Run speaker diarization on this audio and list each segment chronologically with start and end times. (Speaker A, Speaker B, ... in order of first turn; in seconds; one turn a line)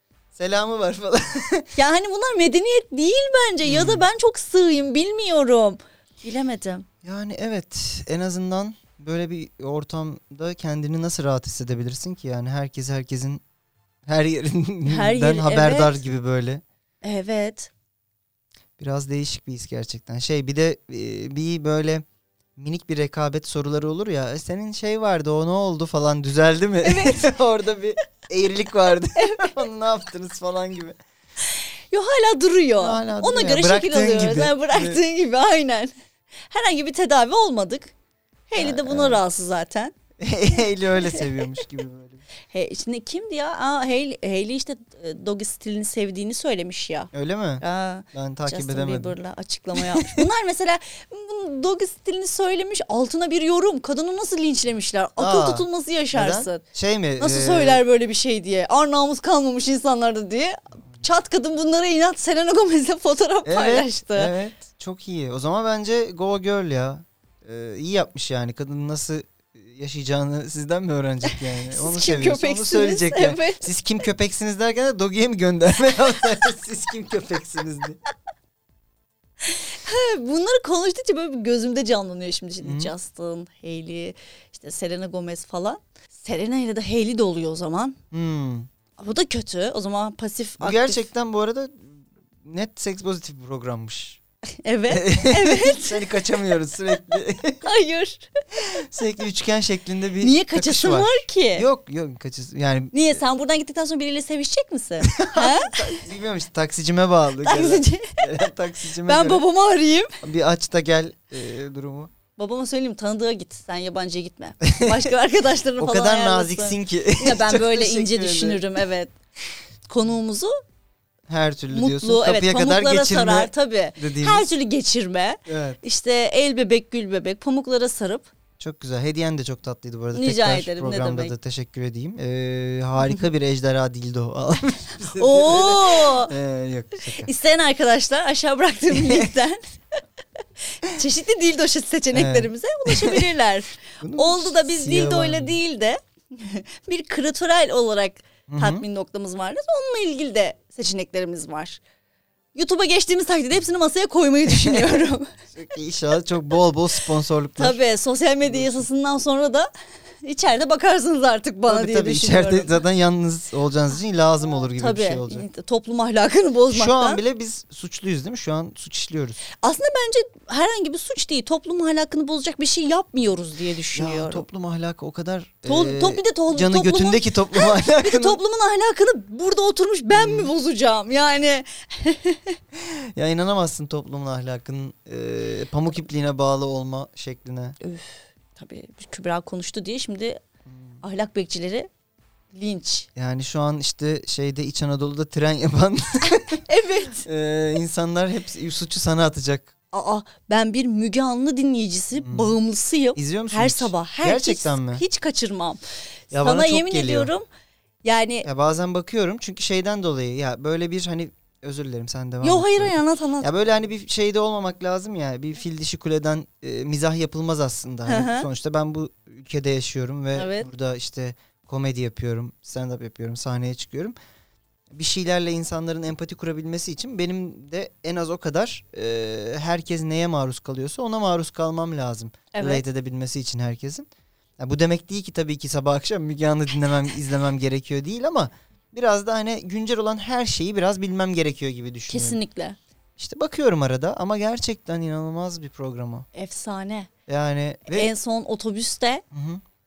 Speaker A: 0.3-1.7
Speaker B: 1.8-6.9
Speaker A: 3.6-4.1
Speaker A: 7.0-13.4
Speaker A: 14.1-16.6
Speaker B: 14.9-16.0
Speaker B: 17.0-17.7
Speaker A: 18.8-22.1
Speaker A: 22.6-31.0
Speaker B: 26.8-27.2
Speaker B: 29.2-29.4
Speaker B: 31.9-35.9
Speaker A: 32.8-35.0
Speaker B: 36.5-37.9
Speaker B: 38.5-39.9
Speaker A: 38.6-39.2
Speaker A: 40.2-42.2
Speaker B: 42.5-56.6
Speaker A: 47.1-49.2
Speaker A: 49.8-50.2
Speaker A: 55.2-57.8
Speaker B: 57.2-64.3
Speaker A: 63.4-78.0
Speaker B: 71.3-73.7
Speaker B: 79.4-88.0
Speaker A: 82.6-82.9
Speaker A: 88.1-88.7
Speaker B: 89.0-91.1
Speaker A: 90.6-94.2
Speaker B: 94.6-96.1
Speaker A: 94.9-97.7
Speaker B: 97.6-98.3
Speaker A: 98.5-103.2
Speaker B: 100.2-101.7
Speaker B: 102.9-106.1
Speaker A: 105.0-109.4
Speaker B: 107.4-108.2
Speaker B: 109.1-110.1
Speaker A: 110.2-112.1
Speaker B: 112.4-119.1
Speaker A: 114.6-115.1
Speaker A: 115.8-118.8
Speaker B: 119.9-120.5
Speaker A: 121.3-124.5
Speaker B: 121.7-128.3
Speaker A: 125.5-125.8
Speaker A: 128.6-137.3
Speaker B: 130.1-131.3
Speaker B: 135.1-136.3
Speaker B: 137.1-139.6
Speaker A: 138.9-139.3
Speaker B: 140.8-151.8
Speaker A: 142.1-143.2
Speaker A: 144.0-145.6
Speaker A: 148.5-148.8
Speaker B: 152.5-155.3
Speaker A: 154.5-155.0
Speaker A: 155.5-157.8
Speaker B: 157.6-159.7
Speaker A: 158.4-158.9
Speaker B: 160.2-162.7
Speaker A: 161.7-165.4
Speaker B: 164.8-167.2
Speaker A: 166.7-169.4
Speaker B: 169.6-174.4
Speaker A: 173.9-178.4
Speaker B: 175.7-182.6
Speaker A: 180.1-180.5
Speaker A: 182.7-187.8
Speaker B: 187.8-190.4
Speaker A: 190.7-191.0
Speaker B: 191.0-191.9
Speaker B: 192.5-193.1
Speaker A: 193.2-196.6
Speaker B: 196.7-197.2
Speaker A: 197.2-199.7
Speaker B: 199.9-205.8
Speaker A: 202.1-202.6
Speaker A: 203.2-205.0
Speaker A: 206.3-207.3
Speaker B: 206.3-207.4
Speaker B: 208.0-208.5
Speaker A: 208.4-224.1
Speaker B: 212.4-213.5
Speaker B: 218.1-218.5
Speaker B: 220.4-220.7
Speaker A: 224.9-234.1
Speaker B: 232.5-232.8
Speaker A: 234.6-242.4
Speaker B: 242.1-242.8
Speaker A: 243.2-246.3
Speaker B: 246.3-247.1
Speaker A: 247.3-248.1
Speaker B: 247.9-249.2
Speaker A: 249.3-249.6